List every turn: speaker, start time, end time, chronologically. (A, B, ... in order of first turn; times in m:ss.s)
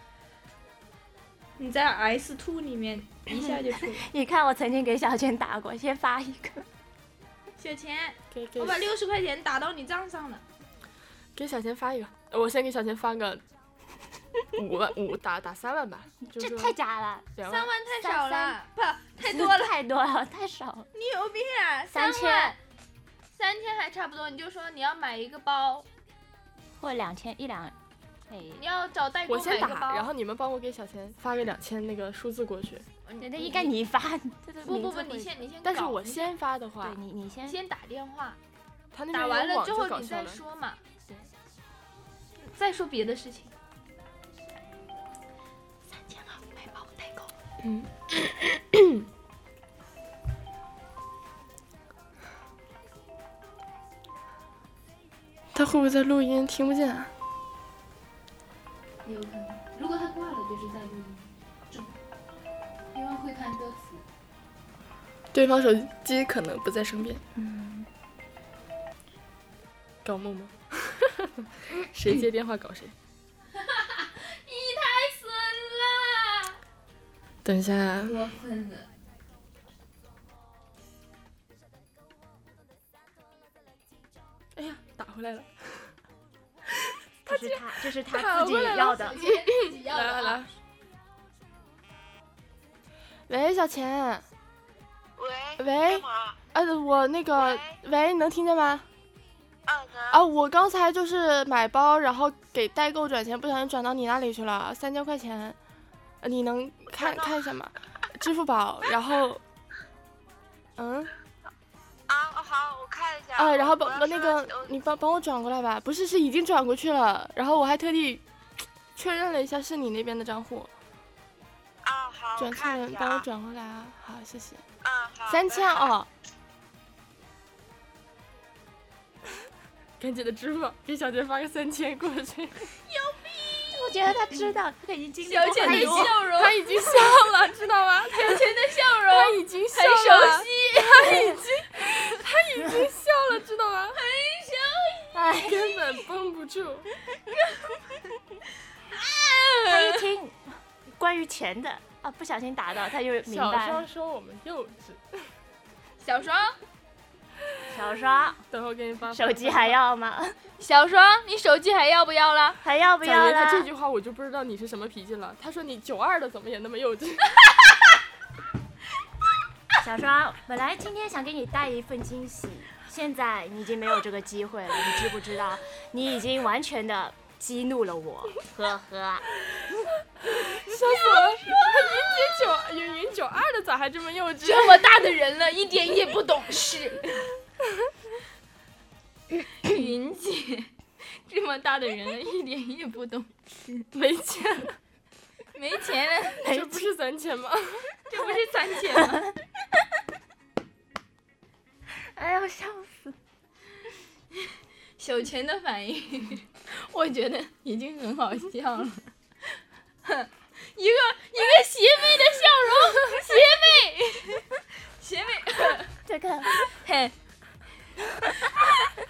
0:01.6-0:04.0 A
0:03.3-0:06.6 B
0:07.6-0:10.4 A
0:08.3-0:08.9 C
0:11.3-0:13.4 C
0:14.6-0:16.8 C
0:16.2-0:17.3 B
0:17.4-0:17.7 C
0:17.4-0:19.7 A
0:18.0-0:18.6 B
0:19.2-0:20.9 B
0:20.9-0:22.6 A
0:21.9-0:22.5 B
0:23.3-0:25.8 A
0:26.8-0:27.7 B
0:28.3-0:28.6 B
0:28.6-0:30.1 A
0:29.3-0:32.9 C
0:33.0-0:33.7 A
0:33.2-0:35.4 B
0:34.6-0:36.3 A
0:35.6-0:37.0 C
0:36.8-0:37.6 B
0:37.5-0:38.4 A
0:38.9-0:40.4 C
0:39.1-0:40.8 A
0:42.4-0:43.5 A
0:46.1-0:46.6 B
0:46.7-0:47.2 A
0:47.6-0:47.9 C
0:55.5-0:57.1 C
0:59.0-1:01.9 A
1:02.9-1:04.0 A
1:05.3-1:07.2 C
1:07.4-1:07.9 B
1:10.0-1:12.9 C
1:13.5-1:16.6 A
1:17.4-1:18.3 C
1:18.1-1:18.9 A
1:24.5-1:25.9 C
1:27.3-1:27.7 A
1:27.3-1:29.2 B
1:28.0-1:30.5 C
1:28.6-1:30.5 A
1:33.3-1:34.2 C
1:35.2-1:36.4 D
1:35.6-1:38.9 C
1:37.3-1:37.8 D
1:39.7-1:40.2 D
1:40.1-1:45.6 C
1:46.2-1:49.4 C
1:46.9-1:47.4 D
1:50.8-1:51.1 C
1:52.1-1:54.7 D
1:53.4-1:58.2 C
1:58.9-2:00.7 C
2:01.8-2:03.2 D
2:02.4-2:04.6 C
2:04.8-2:05.9 D
2:05.3-2:06.1 C
2:10.0-2:12.6 C
2:12.8-2:13.8 A
2:13.7-2:16.1 B
2:15.2-2:16.9 A
2:15.6-2:18.5 C
2:18.1-2:21.2 A
2:19.1-2:24.0 C
2:23.9-2:25.2 A
2:25.1-2:25.7 B
2:25.3-2:26.9 C
2:27.3-2:27.8 A
2:28.9-2:30.0 A
2:29.7-2:33.8 B
2:33.2-2:35.3 C
2:36.0-2:36.6 A
2:37.7-2:38.4 B
2:38.5-2:39.8 C
2:39.1-2:40.4 B
2:40.6-2:42.6 A
2:42.6-2:43.7 B
2:43.0-2:47.4 C
2:49.8-2:59.3 B
3:00.2-3:04.9 C
3:00.9-3:02.0 A
3:04.4-3:07.3 A
3:09.6-3:13.9 A
3:13.9-3:14.8 C
3:15.5-3:16.4 A
3:16.4-3:16.9 B
3:16.4-3:17.9 C
3:18.1-3:19.3 A
3:19.0-3:19.3 B
3:22.0-3:23.1 B
3:24.4-3:29.1 A
3:30.0-3:37.1 A
3:36.0-3:36.6 B